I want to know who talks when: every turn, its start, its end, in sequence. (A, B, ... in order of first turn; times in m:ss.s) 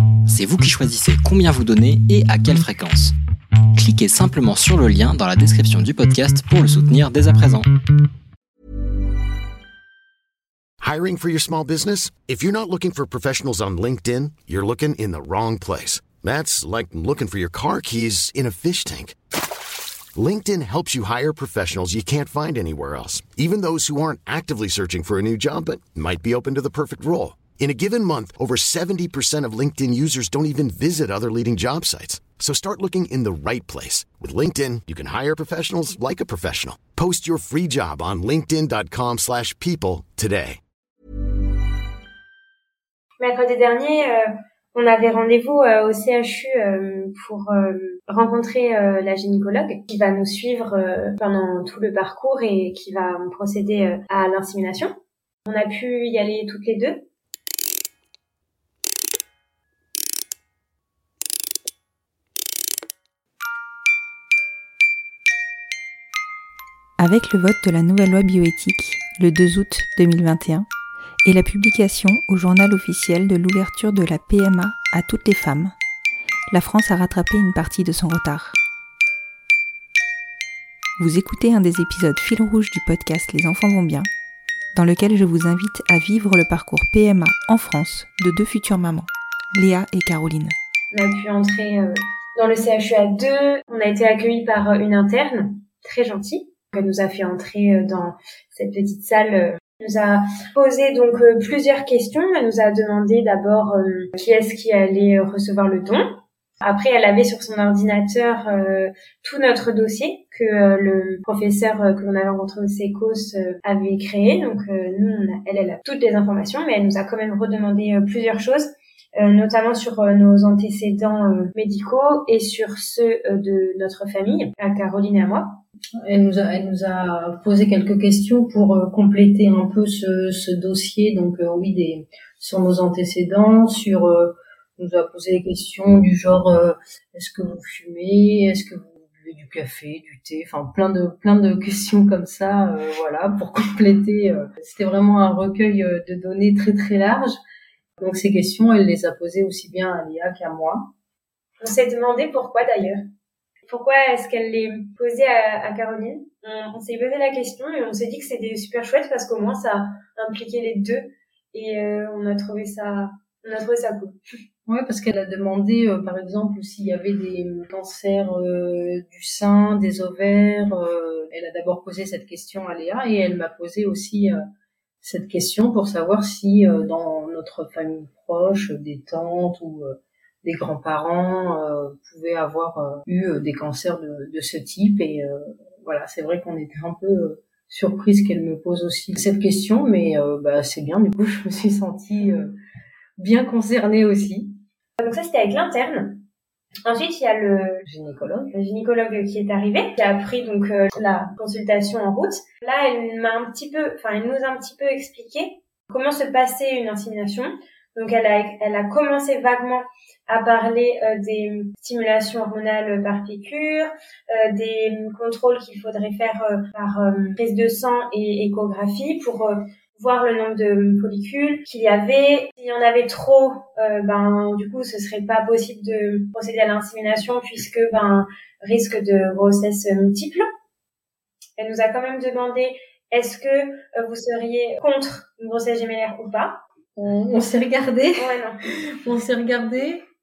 0:00.3-0:03.2 A
0:03.7-0:07.7 A
0:10.8-0:19.1 B
0:20.2-0:40.6 B
0:43.2-0:54.9 C
0:55.5-0:57.0 C
1:07.0-1:10.7 D
1:11.2-1:15.7 D
1:16.5-1:18.6 D
1:21.0-1:24.1 D
1:24.7-1:30.5 D
1:30.9-2:05.6 C
2:06.0-2:27.4 E
2:28.0-2:30.9 E
2:31.6-2:33.0 C
2:33.7-2:44.2 C
2:44.7-2:54.4 E
2:55.0-3:12.6 E
3:13.2-3:14.6 E
3:15.0-3:16.2 C
3:16.8-3:17.8 C
3:17.8-3:18.5 E
3:18.5-3:50.4 C
3:51.6-3:56.6 C
3:57.0-4:00.0 E
3:58.2-3:58.6 C